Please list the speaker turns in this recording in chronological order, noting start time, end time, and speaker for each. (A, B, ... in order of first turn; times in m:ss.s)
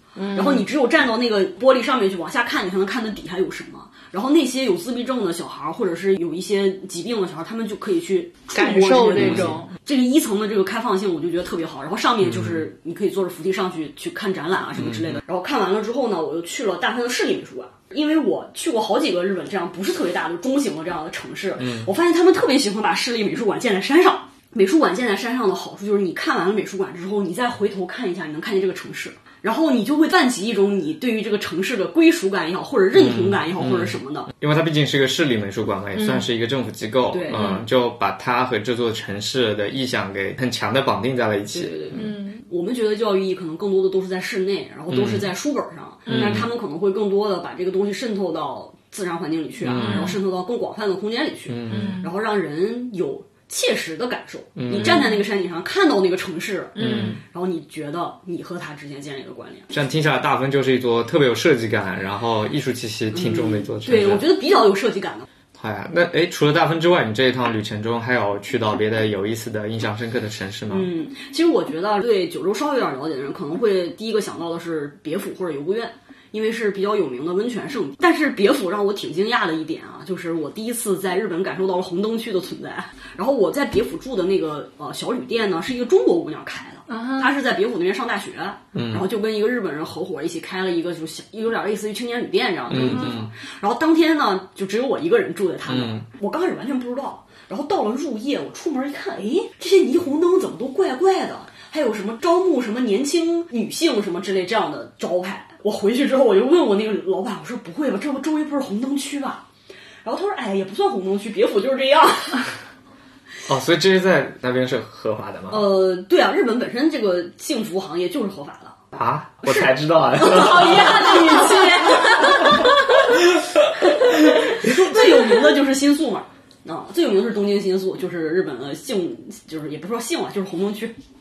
0:00.2-0:00.7 A
0:00.3-0:34.3 B
0:08.5-0:09.7 A
0:09.1-0:09.6 C
0:12.2-0:12.6 C
0:14.8-0:15.2 C
0:21.6-0:21.9 C
0:32.9-0:42.0 C
0:35.9-0:36.3 A
0:37.1-0:37.6 B
0:41.5-0:59.7 B
0:41.9-0:42.4 A
0:44.9-0:45.3 C
0:46.1-0:46.5 C
0:46.1-0:46.3 A
0:49.6-0:50.2 C
0:49.7-0:50.2 A
0:51.5-0:52.0 C
0:51.7-0:52.1 A
0:54.6-0:55.1 C
0:54.7-0:55.2 A
0:56.8-0:57.2 A
0:56.8-0:57.2 C
0:59.7-1:04.2 C
1:03.1-1:05.3 B
1:05.6-1:10.9 C
1:10.7-1:49.4 B
1:26.9-1:27.3 A
1:28.7-1:29.0 C
1:32.7-1:33.3 C
1:32.8-1:33.1 A
1:35.7-1:36.0 C
1:50.0-1:52.5 B
1:53.4-1:55.6 C
1:55.5-1:58.8 B
1:58.9-2:01.2 C
1:59.4-2:02.7 B
2:00.2-2:03.0 A
2:03.8-2:10.9 B